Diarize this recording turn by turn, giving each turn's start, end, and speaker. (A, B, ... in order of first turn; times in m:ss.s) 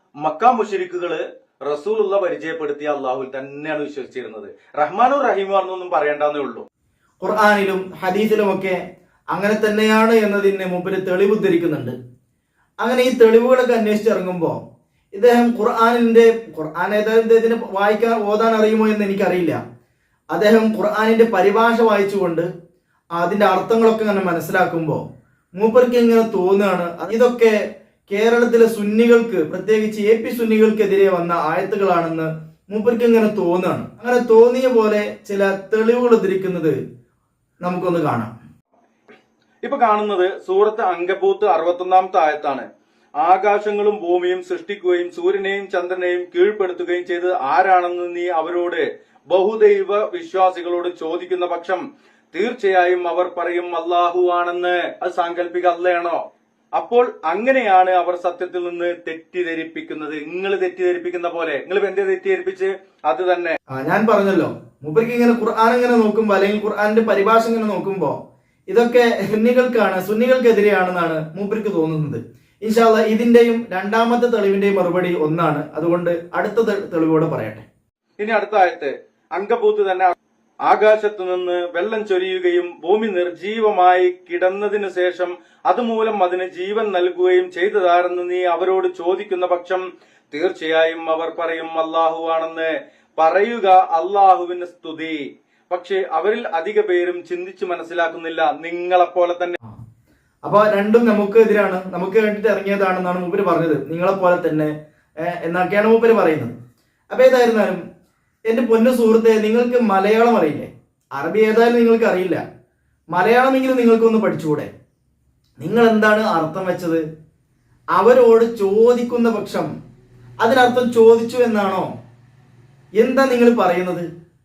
0:00.2-0:06.6 A
0:07.2-0:08.8 B
0:09.3-0:11.9 B
0:12.8-0:14.6 B
0:15.1-0:19.6 B
0:20.3-0:22.5 B
0:23.2-0:25.0 B
0:25.6-0:27.6 B
0:28.1-0:36.8 B
0:37.6-0:38.3 B
0:39.6-0:42.6 A
0:43.2-0:51.8 A
0:52.3-0:56.2 A
0:56.8-1:03.6 A
1:03.7-1:08.2 B
1:08.7-1:17.6 B
1:18.2-1:20.1 A
1:20.6-1:35.2 A
1:35.7-1:39.6 A
1:40.4-1:44.7 B
1:45.2-1:46.5 B
1:47.1-1:47.8 B
1:48.5-1:52.4 B
1:53.1-1:54.7 B
1:55.6-1:57.0 B
1:58.0-1:59.7 B
2:00.4-2:01.9 B
2:03.0-2:04.0 B